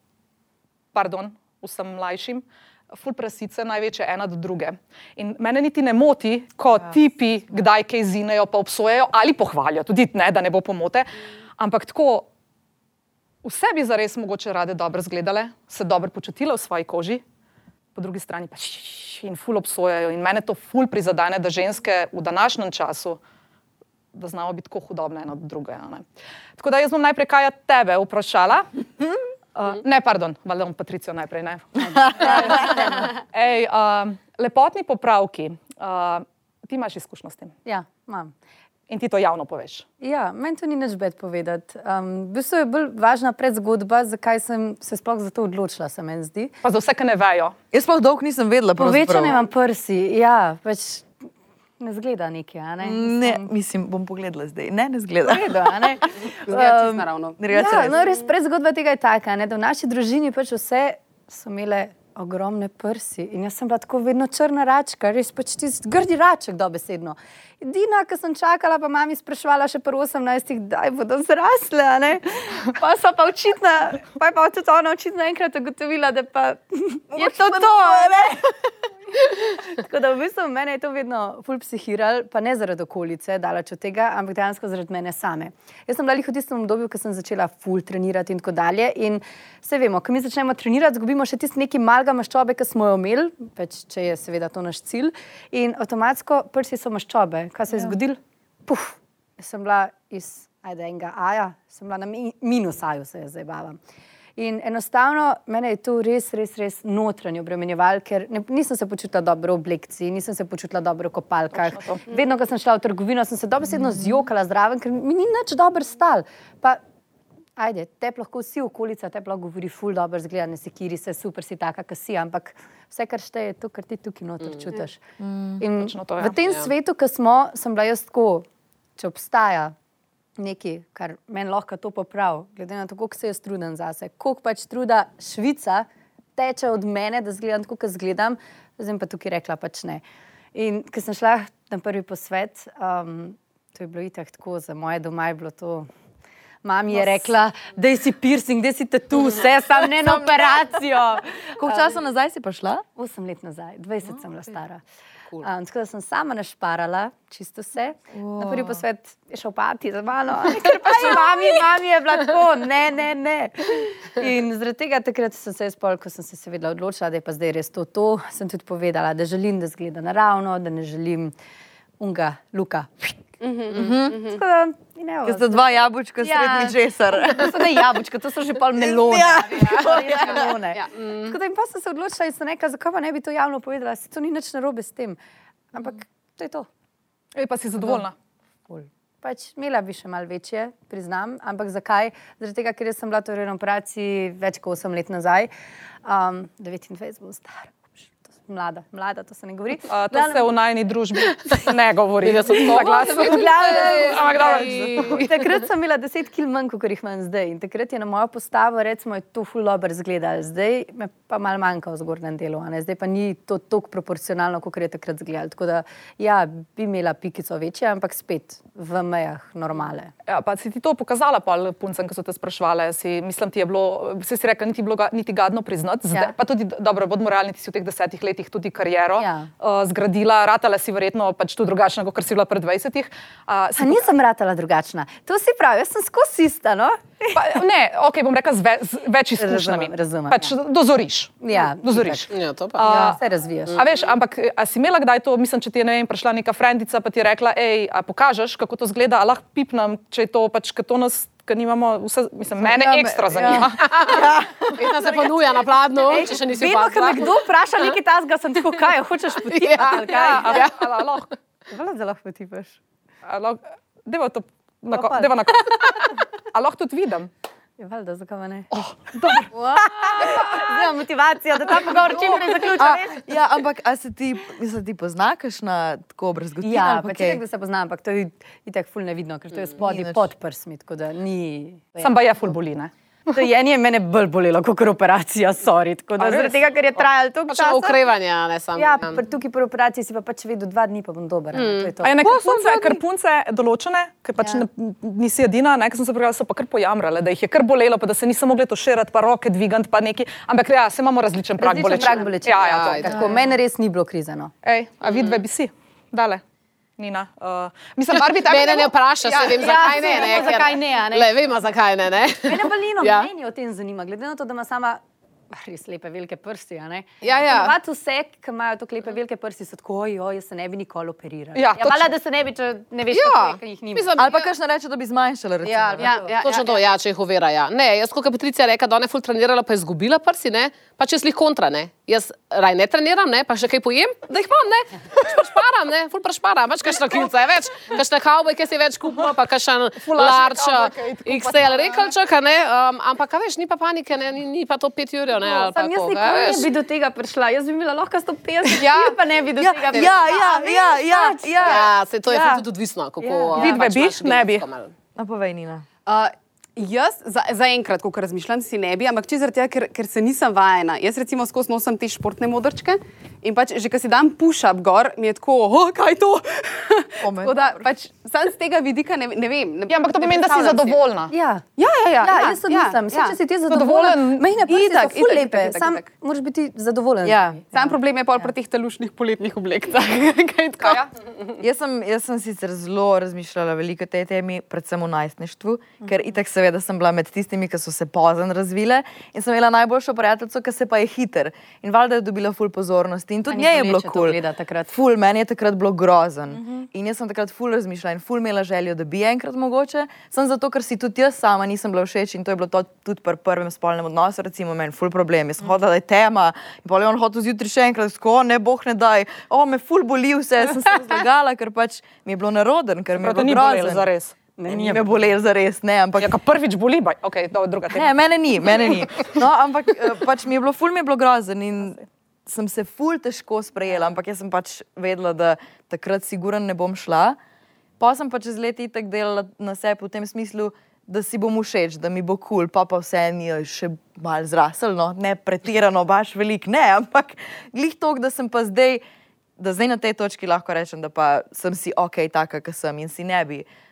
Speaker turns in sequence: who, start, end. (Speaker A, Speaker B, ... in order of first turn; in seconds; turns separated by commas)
Speaker A: 0.9-12.3, Speaker A: 13.4-17.2, Speaker A: 17.9-23.2, Speaker A: 24.1-26.1, Speaker A: 26.6-28.7, Speaker A: 29.6-37.5, Speaker B: 31.8-33.1, Speaker C: 32.2-32.7, Speaker B: 37.6-38.3, Speaker A: 38.9-39.9, Speaker B: 40.0-46.5, Speaker A: 46.6-47.5, Speaker C: 47.7-49.4, Speaker B: 48.8-51.1, Speaker B: 51.8-53.5, Speaker C: 52.8-56.0, Speaker B: 55.2-78.4, Speaker D: 56.4-57.4, Speaker C: 56.5-58.0, Speaker C: 77.1-78.4, Speaker B: 79.2-103.8, Speaker B: 104.4-116.8, Speaker A: 111.5-112.0, Speaker B: 117.6-125.0, Speaker C: 125.2-125.6, Speaker B: 125.6-128.5, Speaker A: 125.8-126.4, Speaker B: 129.0-129.7, Speaker B: 130.4-140.0, Speaker B: 140.5-145.9, Speaker B: 146.6-151.9, Speaker C: 146.9-147.3, Speaker C: 149.8-151.0, Speaker C: 151.6-152.8, Speaker B: 153.0-154.8, Speaker B: 155.4-171.3, Speaker C: 158.1-158.8, Speaker B: 172.0-173.3, Speaker D: 173.4-174.4, Speaker C: 173.7-174.2, Speaker B: 174.2-175.7, Speaker C: 175.2-178.0, Speaker B: 176.2-185.2, Speaker C: 178.8-180.6, Speaker B: 185.7-186.7, Speaker A: 187.3-188.1, Speaker B: 188.7-195.5, Speaker B: 196.1-200.5, Speaker A: 199.9-205.3, Speaker E: 202.2-205.3, Speaker B: 202.6-220.1, Speaker A: 220.3-234.1, Speaker B: 229.2-229.5, Speaker B: 233.8-237.2, Speaker A: 237.3-243.2, Speaker B: 239.4-240.5, Speaker B: 241.4-242.3, Speaker E: 242.3-242.8, Speaker B: 242.8-243.8, Speaker C: 242.9-243.2, Speaker A: 243.8-254.1, Speaker C: 252.6-254.7, Speaker E: 253.8-257.9, Speaker B: 256.1-260.7, Speaker E: 259.5-260.8, Speaker A: 259.8-261.3, Speaker B: 261.7-262.8, Speaker A: 263.2-267.3, Speaker B: 264.9-266.0, Speaker B: 267.8-268.7, Speaker A: 268.7-269.5, Speaker B: 269.3-273.2, Speaker C: 272.2-277.4, Speaker B: 276.6-282.2, Speaker C: 279.8-280.3, Speaker A: 282.0-283.3, Speaker B: 283.3-288.0, Speaker A: 286.2-286.6, Speaker E: 287.5-289.2, Speaker B: 288.8-293.0, Speaker E: 291.5-291.9, Speaker A: 292.0-303.3, Speaker B: 301.6-304.5, Speaker E: 302.6-303.3, Speaker A: 304.6-306.4, Speaker E: 305.1-305.4, Speaker A: 307.0-310.6, Speaker E: 308.2-313.3, Speaker B: 309.4-311.3, Speaker B: 312.5-324.4, Speaker E: 317.2-317.8, Speaker A: 321.5-322.1, Speaker E: 323.1-324.3, Speaker C: 324.2-326.1, Speaker B: 325.6-326.4, Speaker D: 326.0-326.8, Speaker E: 326.4-334.3, Speaker A: 334.3-334.9, Speaker E: 335.1-346.7, Speaker A: 340.0-342.1, Speaker B: 345.4-351.8, Speaker D: 348.8-349.2, Speaker C: 349.6-352.5, Speaker E: 351.6-354.9, Speaker B: 353.2-353.8, Speaker A: 353.6-354.6, Speaker C: 355.2-355.9, Speaker D: 356.1-371.0, Speaker C: 367.2-367.8, Speaker A: 369.9-371.3, Speaker B: 371.3-371.7, Speaker D: 371.8-373.4, Speaker B: 372.2-377.9, Speaker A: 373.7-374.5, Speaker D: 374.6-376.1, Speaker C: 377.2-377.6, Speaker D: 377.7-381.0, Speaker A: 380.8-381.1, Speaker C: 381.6-394.4, Speaker B: 393.5-394.9, Speaker C: 394.9-414.1, Speaker A: 413.2-414.4, Speaker B: 414.6-415.1, Speaker C: 414.7-416.4, Speaker A: 416.2-418.1, Speaker C: 417.9-427.4, Speaker C: 428.0-439.0, Speaker C: 439.6-443.7